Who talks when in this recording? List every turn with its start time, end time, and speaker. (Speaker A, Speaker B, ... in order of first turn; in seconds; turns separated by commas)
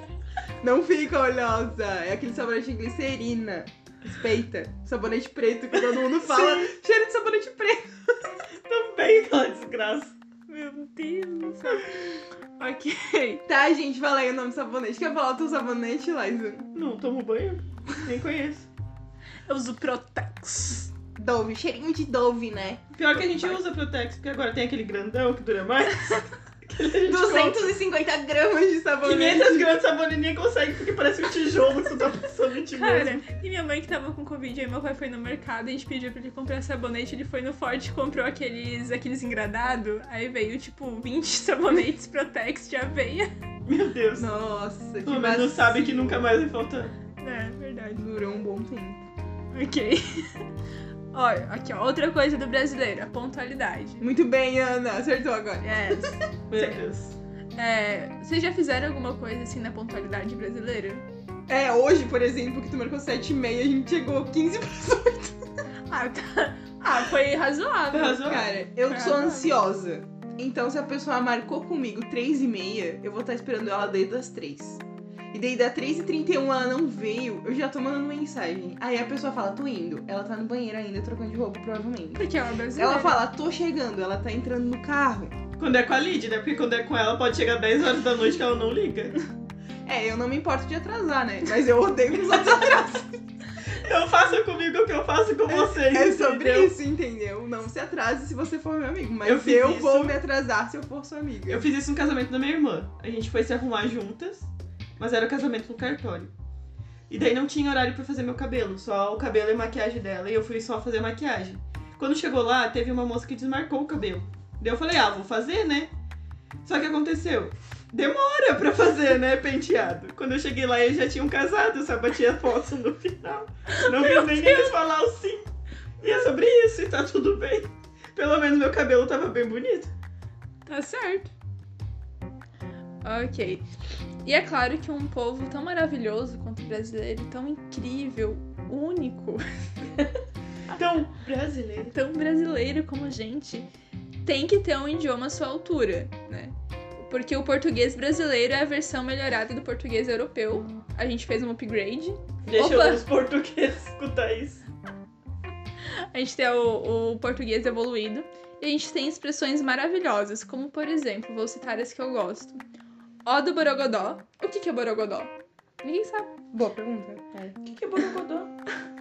Speaker A: 0.6-8.3, Speaker B: 5.9-6.7, Speaker B: 8.7-10.2, Speaker C: 10.5-13.4, Speaker A: 13.5-16.7, Speaker B: 16.7-18.7, Speaker C: 19.5-20.9, Speaker A: 21.2-23.6, Speaker B: 23.0-27.8, Speaker A: 27.0-29.8, Speaker B: 29.0-33.2, Speaker C: 32.7-43.3, Speaker B: 43.7-44.3, Speaker A: 44.2-46.3, Speaker B: 45.0-47.0, Speaker C: 47.2-48.0, Speaker A: 48.0-49.0, Speaker C: 49.5-50.5, Speaker C: 51.1-54.1, Speaker A: 54.0-56.8, Speaker B: 56.5-57.2, Speaker C: 57.6-61.0, Speaker A: 61.5-65.4, Speaker C: 65.9-69.5, Speaker B: 67.9-68.5, Speaker A: 68.2-85.4, Speaker C: 82.2-83.2, Speaker B: 85.6-89.2, Speaker A: 89.9-93.2, Speaker B: 93.7-96.8, Speaker A: 95.5-101.7, Speaker B: 99.2-100.2, Speaker B: 101.5-106.3, Speaker B: 107.1-115.9, Speaker B: 116.6-125.5, Speaker C: 123.7-124.7, Speaker B: 126.0-129.9, Speaker C: 130.7-131.3, Speaker C: 133.0-133.7, Speaker C: 134.2-140.1, Speaker B: 140.7-141.9, Speaker C: 141.9-143.7, Speaker C: 144.2-153.0, Speaker B: 152.5-154.6, Speaker C: 156.1-162.6, Speaker C: 163.2-166.3, Speaker A: 166.5-167.6, Speaker B: 167.6-168.5